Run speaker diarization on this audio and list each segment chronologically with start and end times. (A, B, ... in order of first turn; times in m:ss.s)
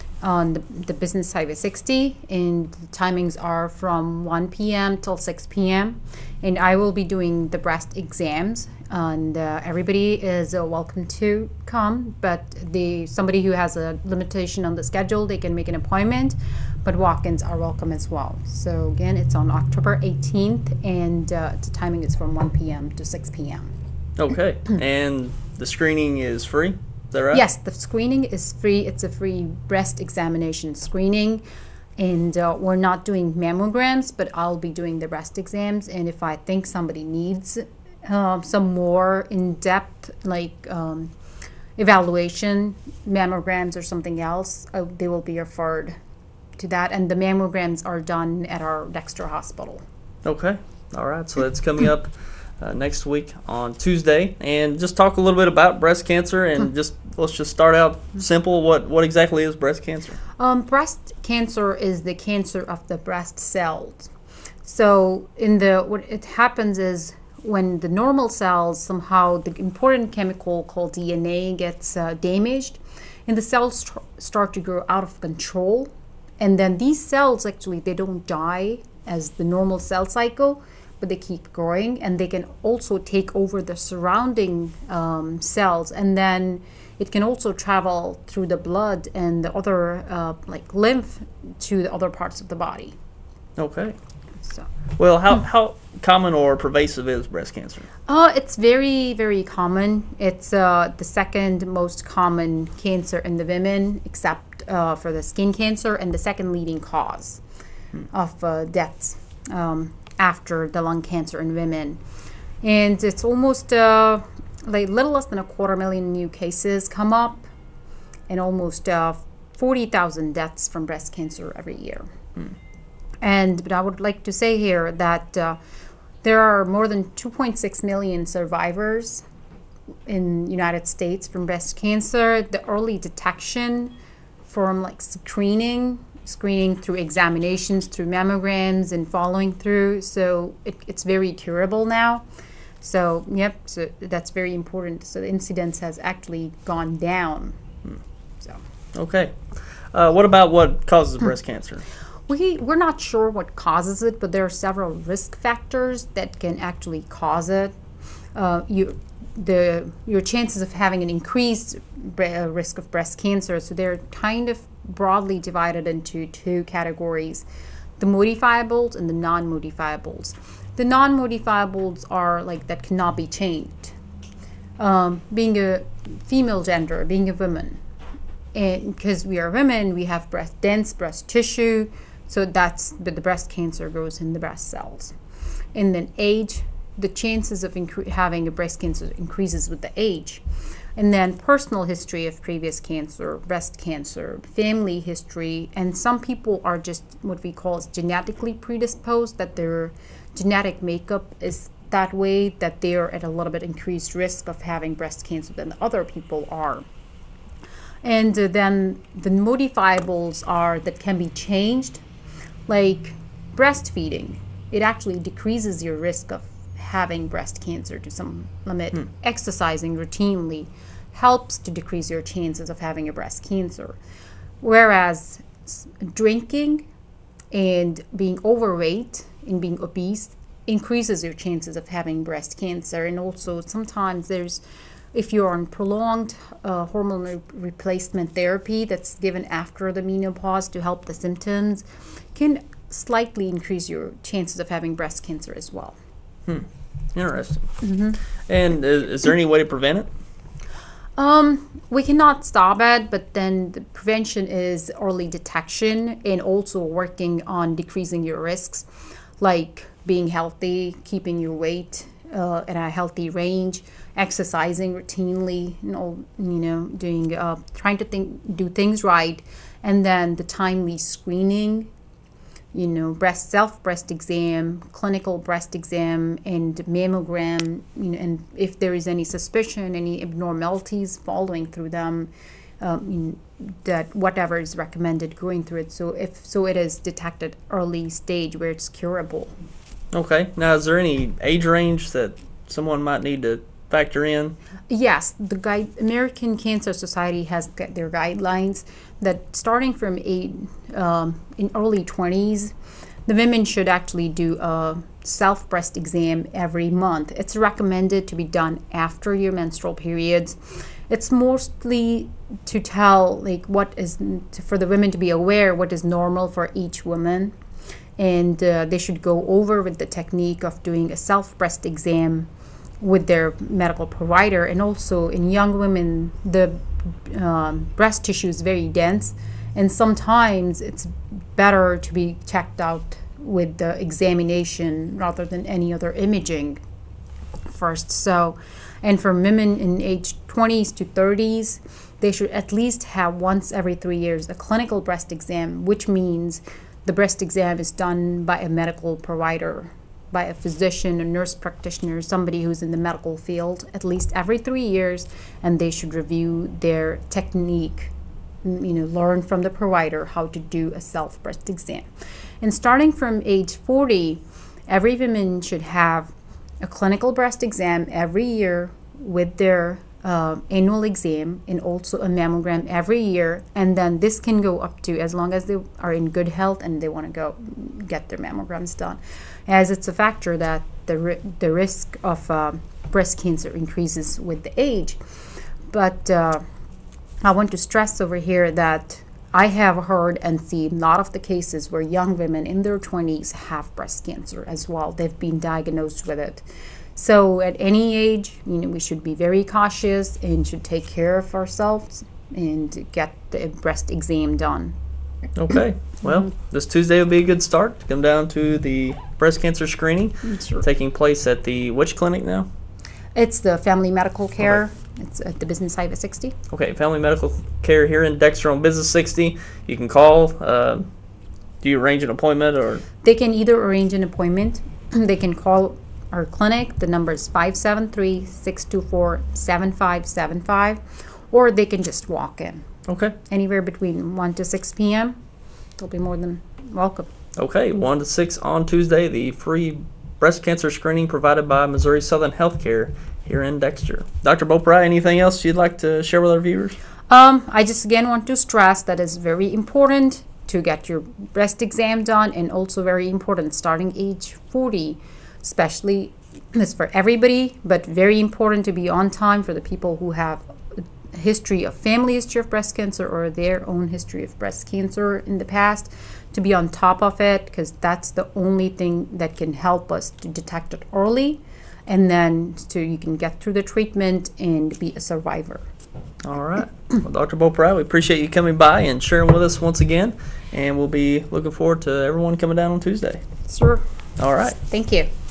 0:00.2-0:23.7 A
0:24.2-0:27.4 B
0:27.3-0:31.4 A
0:32.0-0:41.1 A
0:41.8-0:46.0 A
0:46.6-0:49.8 A
0:50.2-1:00.2 B
1:00.4-1:04.1 A
1:04.6-1:33.0 A
1:33.6-1:34.0 B
1:35.0-1:37.9 B
1:38.1-1:47.4 A
1:48.1-1:52.0 A
1:52.6-1:57.5 A
1:58.3-2:02.1 A
2:03.2-2:05.6 A
2:06.2-2:09.2 A
2:10.1-2:22.2 A
2:22.8-2:27.6 A
2:29.0-2:29.4 B
2:29.9-2:31.8 B
2:32.3-2:37.8 A
2:38.4-2:47.5 A
2:48.0-2:54.0 A
2:54.8-2:57.8 A
2:58.5-3:05.2 A
3:05.7-3:10.4 A
3:11.0-3:26.9 A
3:28.0-3:32.0 A
3:32.7-3:44.0 A
3:44.6-3:46.9 A
3:47.5-4:06.0 A
4:06.5-4:07.7 B
4:07.8-4:08.2 A
4:08.5-4:10.1 B
4:11.2-4:18.9 A
4:19.4-4:31.9 A
4:32.7-4:49.5 A
4:50.1-4:54.6 B
4:54.9-5:02.7 A
5:03.3-5:17.6 A
5:18.2-5:36.8 A
5:37.7-5:58.1 A
5:58.6-6:02.1 A
6:02.6-6:25.2 A
6:25.9-6:26.6 A
6:27.4-6:45.0 A
6:45.6-6:52.7 B
6:46.2-6:46.5 A
6:50.4-6:50.8 A
6:53.4-6:56.6 A
6:56.7-7:01.0 B
7:01.8-7:03.0 B
7:03.2-7:12.9 A
7:13.1-7:13.4 B
7:13.4-7:15.4 A
7:16.0-7:17.3 A
7:17.6-7:27.0 B
7:27.3-7:55.9 A
7:56.4-8:03.4 B
8:03.6-8:04.0 A
8:04.4-8:04.8 B
8:04.8-8:05.3 A